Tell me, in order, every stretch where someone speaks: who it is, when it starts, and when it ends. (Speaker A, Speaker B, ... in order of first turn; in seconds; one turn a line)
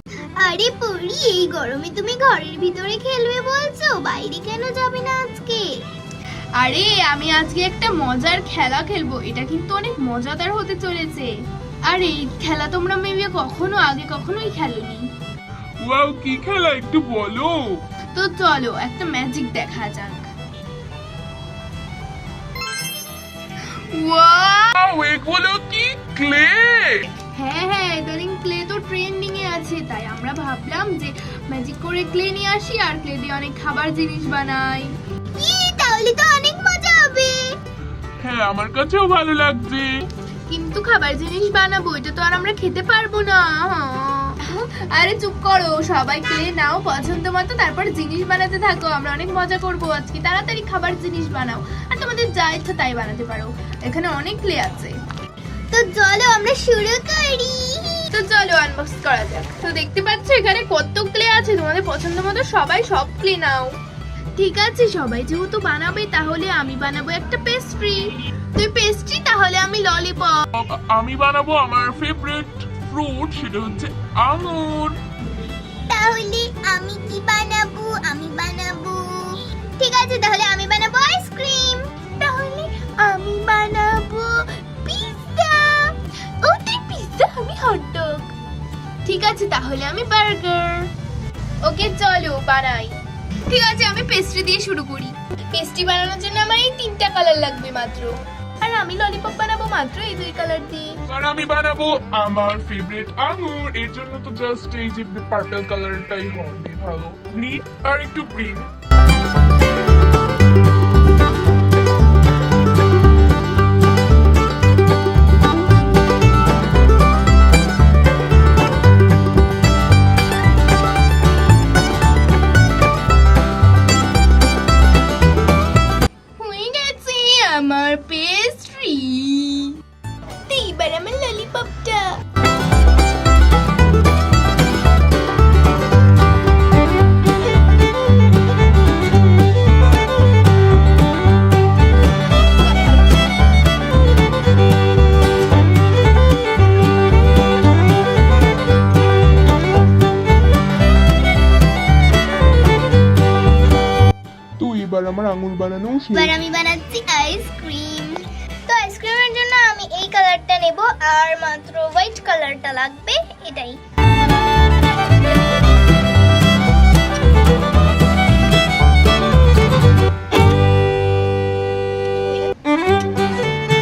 Speaker A: 0.8-2.5
Speaker A: 4.4-4.9
Speaker B: 6.6-11.3
Speaker B: 11.9-15.0
Speaker C: 15.8-17.6
Speaker B: 18.1-20.3
Speaker B: 23.7-24.8
Speaker C: 24.7-27.1
Speaker B: 27.3-34.9
Speaker A: 35.4-37.0
Speaker C: 38.2-39.9
Speaker B: 40.5-54.9
Speaker B: 58.1-63.8
Speaker B: 64.4-70.4
Speaker C: 70.5-75.0
Speaker A: 75.9-81.9
Speaker B: 82.2-85.9
Speaker B: 86.4-88.3
Speaker B: 89.0-90.9
Speaker B: 91.6-100.9
Speaker C: 101.1-108.7
Speaker B: 126.4-129.8
Speaker B: 130.4-132.2
Speaker B: 142.6-143.2
Speaker C: 154.6-156.4
Speaker A: 156.1-163.7
Speaker B: 172.2-172.5